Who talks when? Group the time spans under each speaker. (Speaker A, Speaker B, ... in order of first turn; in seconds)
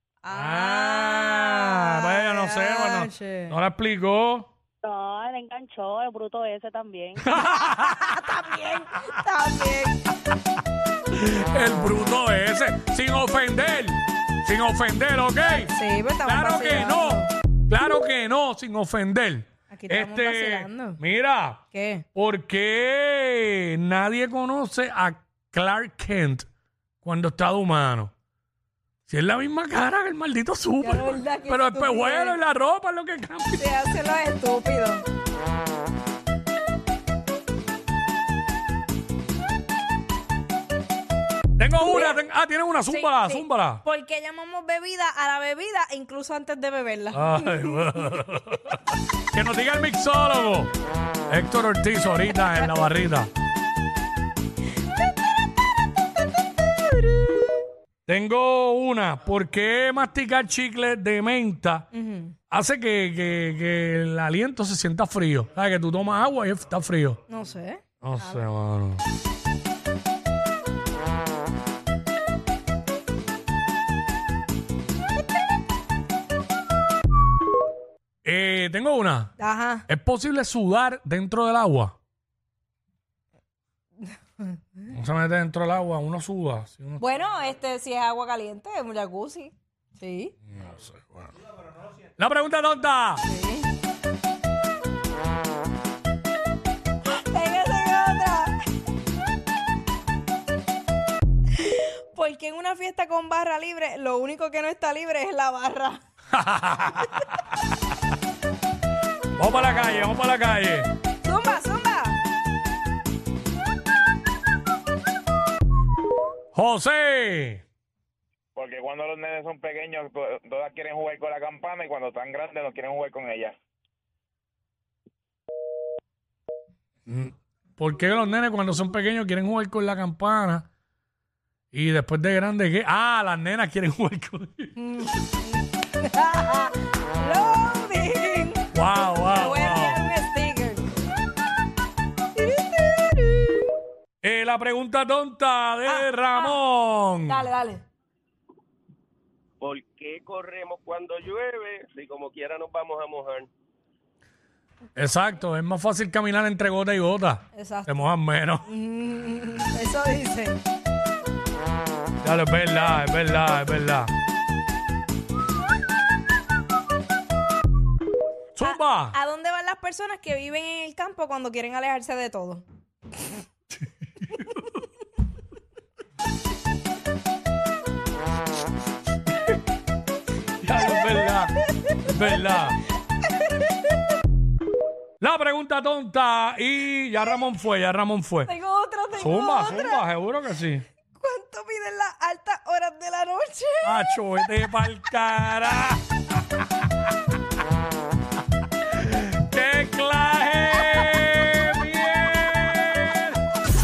Speaker A: 0.2-3.5, 7.4-10.0, 15.7-17.3, 19.7-21.0, 21.7-22.0, 30.8-32.4, 33.6-35.1, 41.8-42.2, 42.9-47.9, 54.9-57.7, 61.9-62.3, 67.3-67.8, 79.4-79.8, 87.0-90.3, 93.2-93.7, 97.1-98.5, 101.6-106.0, 111.2-112.2, 134.8-138.6, 139.3-140.9, 142.3-143.8, 145.9-146.6, 147.3-147.8, 157.5-157.9, 158.7-160.6, 168.6-172.6, 183.2-184.0, 188.5-190.1, 191.1-193.9
Speaker B: 0.3-4.5, 7.2-8.2, 11.1-15.7, 16.2-26.5, 27.0-28.1, 29.1-33.8, 41.6-43.8, 47.1-50.7, 51.3-53.3, 58.1-61.9, 62.5-67.2, 68.0-69.0, 78.2-79.3, 79.9-81.9, 84.9-87.1, 90.5-91.3, 92.2-93.2, 106.3-107.5, 109.3-110.9, 116.5-117.6, 127.1-130.7, 131.7-134.8, 138.7-140.1, 144.2-147.5, 155.0-158.7, 162.2-164.1, 168.6-169.2, 174.3-174.6, 180.6-182.8, 185.2-188.5, 189.1-190.9, 193.8-196.0, 199.0-203.4
Speaker C: 4.8-7.3
Speaker D: 118.6-123.6
Speaker E: 149.6-153.5